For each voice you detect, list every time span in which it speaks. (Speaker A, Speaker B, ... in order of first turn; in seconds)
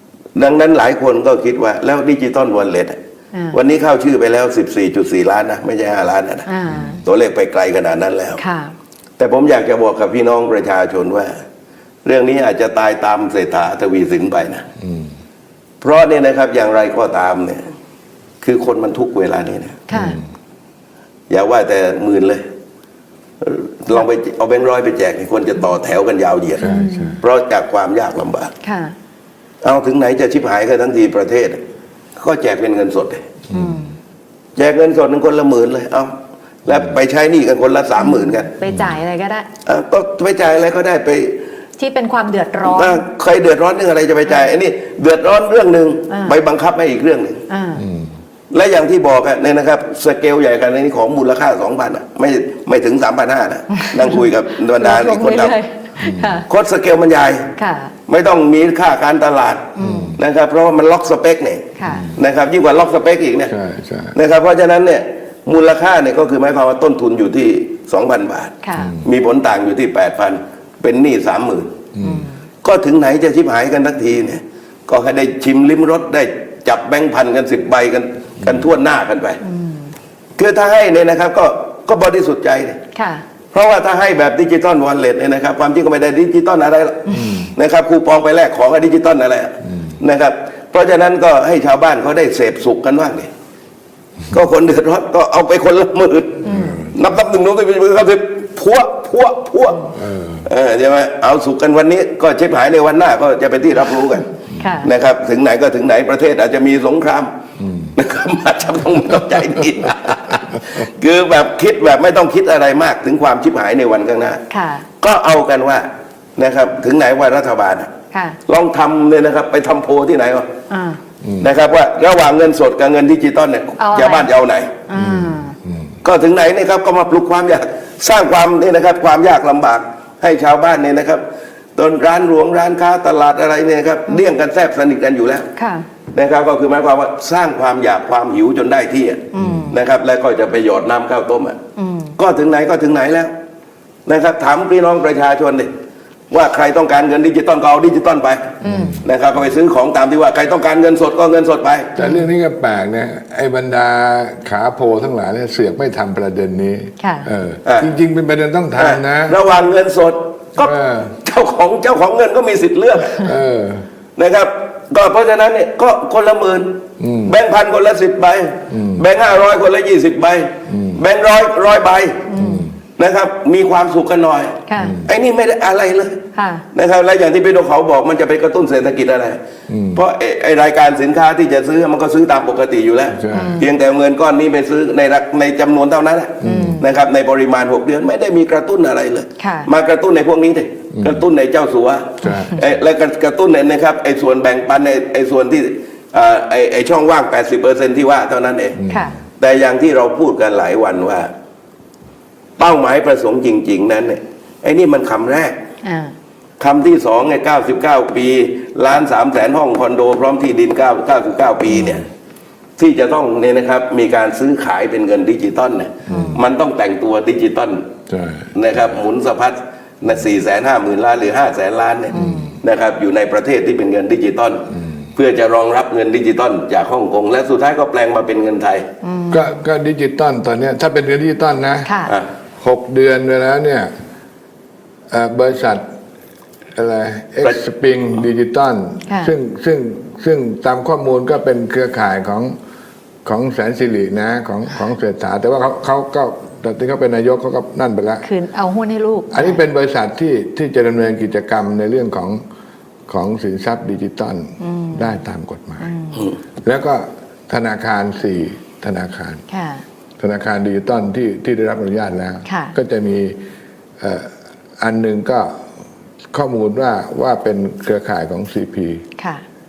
Speaker A: 0.3-3.0, 3.5-6.5, 7.0-8.4, 9.2-11.3, 12.0-14.7, 15.8-17.6, 18.4-19.8, 21.3-22.4, 23.4-28.5, 29.6-31.6, 32.2-33.2, 34.5-36.1, 36.6-38.5, 39.6-41.4, 42.6-47.4, 48.5-55.6, 56.5-57.5, 58.1-63.5, 64.1-71.7, 72.6-79.4, 80.4-82.8, 83.5-93.3, 94.3-99.9, 100.5-104.3, 104.8-107.3, 108.0-114.4, 115.0-115.8, 116.4-120.5, 121.4-124.8, 126.0-131.2, 131.8-135.5, 136.1-141.6, 142.2-143.3, 144.1-145.7, 146.3-151.9, 157.6-157.9, 158.8-163.2, 164.2-172.3, 173.0-179.4, 179.9-198.8, 199.4-201.3, 202.6-205.5, 206.6-212.0, 212.8-217.8, 218.5-228.8
Speaker B: 3.3-3.6, 6.5-7.0, 8.4-8.7, 19.9-20.2, 26.6-27.2, 28.6-28.9, 33.5-33.9, 38.0-39.5, 41.8-43.0, 46.1-46.4, 47.5-47.9, 53.7-56.5, 57.5-57.9, 59.7-60.1, 61.8-62.1, 68.6-69.0, 72.0-72.4, 79.4-79.9, 82.9-83.2, 87.1-87.3, 96.4-96.8, 104.5-104.9, 114.5-114.9, 118.1-118.4, 120.7-121.0, 123.8-124.3, 124.8-125.5, 135.6-135.8, 139.3-139.8, 141.8-142.2, 148.6-149.0, 152.0-152.2, 157.0-157.3, 172.2-172.7, 174.6-175.0, 176.3-176.7, 183.3-183.7, 186.4-186.8, 189.4-189.7, 192.2-192.6, 198.9-199.2, 205.8-206.1, 222.1-222.6, 229.0-229.6, 231.8-232.1, 239.1-239.3, 248.2-249.6, 254.6-255.2, 255.8-256.3, 259.5-259.8, 262.4-262.7, 269.2-269.4
Speaker C: 6.7-7.0, 14.8-15.1, 19.9-20.2, 26.6-27.2, 33.5-33.9, 38.6-39.0, 47.8-48.1, 56.0-56.4, 59.8-60.2, 61.8-62.2, 63.5-64.2, 68.7-69.1, 71.9-72.3, 78.4-78.7, 87.1-87.5, 96.5-97.0, 99.9-100.5, 107.6-107.9, 121.2-121.5, 124.9-125.9, 139.4-139.7, 148.6-149.1, 151.9-159.4, 160.6-161.2, 163.2-163.8, 167.0-167.3, 168.7-169.1, 170.7-171.0, 172.3-172.7, 174.8-175.1, 179.7-180.0, 183.1-183.7, 186.4-186.8, 190.9-191.2, 192.2-192.6, 198.8-199.1, 211.7-212.0, 216.1-216.4, 218.1-218.5, 222.1-222.6, 229.3-231.9, 232.6-233.9, 235.1-235.8, 236.7-242.6, 243.2-248.2, 249.3-252.4, 253.1-255.9, 256.6-259.4, 260.2-263.4, 264.0-265.5, 266.3-269.0